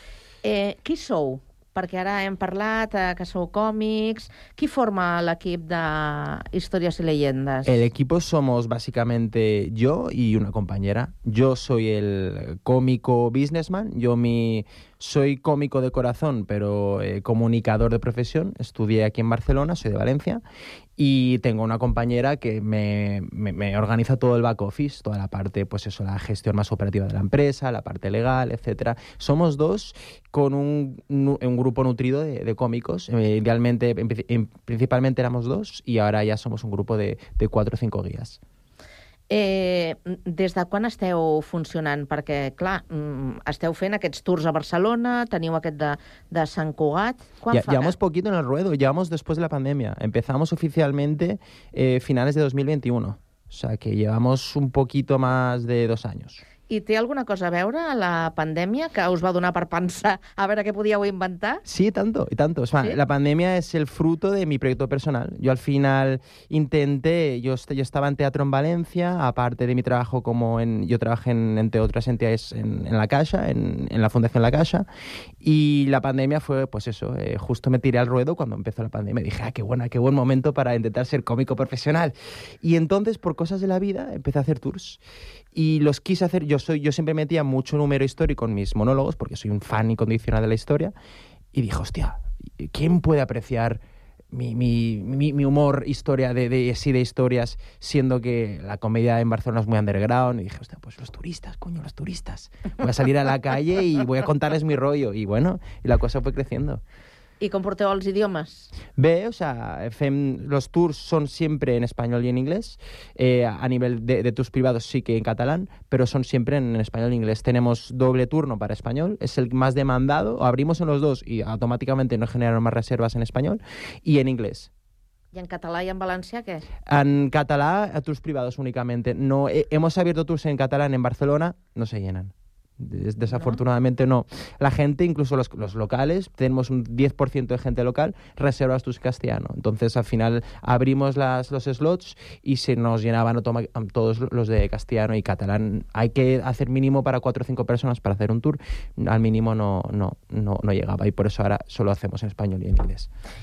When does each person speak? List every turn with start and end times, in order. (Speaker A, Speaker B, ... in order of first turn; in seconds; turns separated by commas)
Speaker A: 0.4-7.8, Speaker B: 7.6-20.4, Speaker B: 21.0-38.4, Speaker A: 39.3-47.9, Speaker B: 47.5-56.4, Speaker A: 56.7-61.6, Speaker B: 61.6-74.9, Speaker B: 75.4-85.0, Speaker B: 85.5-90.9, Speaker B: 91.5-93.8, Speaker B: 94.3-106.8, Speaker A: 107.4-108.7, Speaker B: 109.0-124.7, Speaker A: 125.3-126.6, Speaker B: 126.8-153.1, Speaker A: 133.3-133.6